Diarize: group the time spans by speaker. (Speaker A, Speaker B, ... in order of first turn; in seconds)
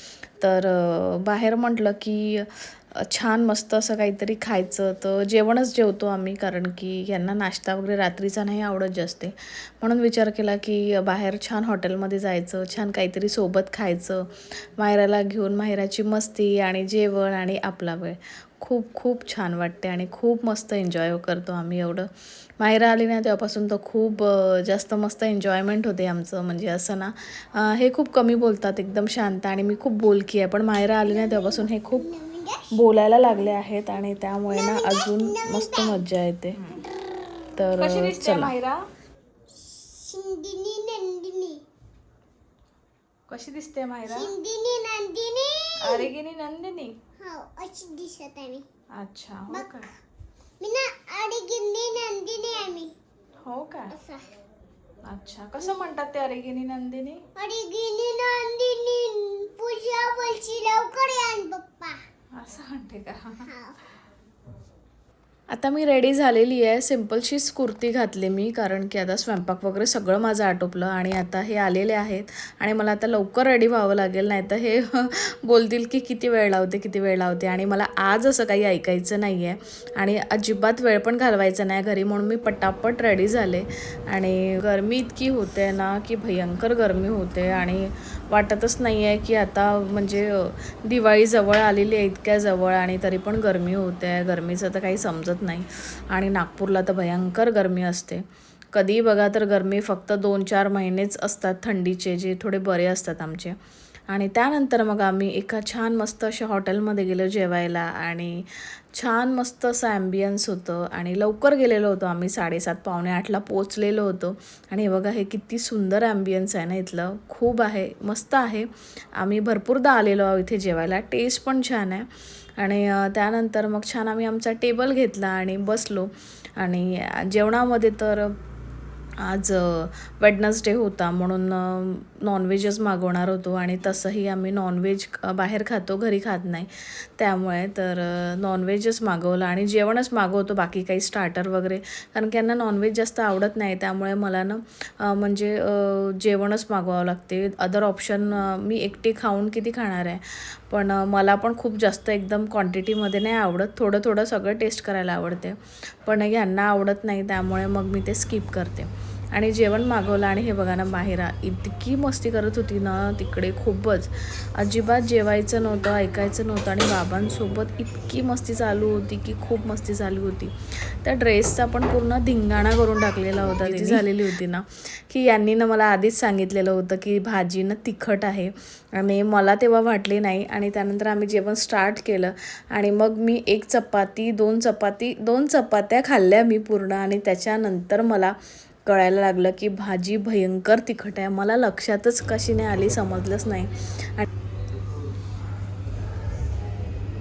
Speaker A: 0.4-32.1, 32.7-36.6, 37.5-38.5, 65.5-103.6, 104.1-128.3, 129.2-194.3
Speaker B: 31.0-32.7, 34.5-36.0, 39.5-41.6, 44.0-46.1, 47.2-48.6, 49.5-49.7, 50.6-52.9, 53.9-54.3, 55.6-55.9, 57.4-62.0, 63.4-63.7
Speaker C: 36.5-36.9, 37.8-38.8, 43.3-44.3, 45.8-47.0, 49.0-49.9, 53.4-53.9, 55.0-57.2, 62.4-63.5, 173.6-174.0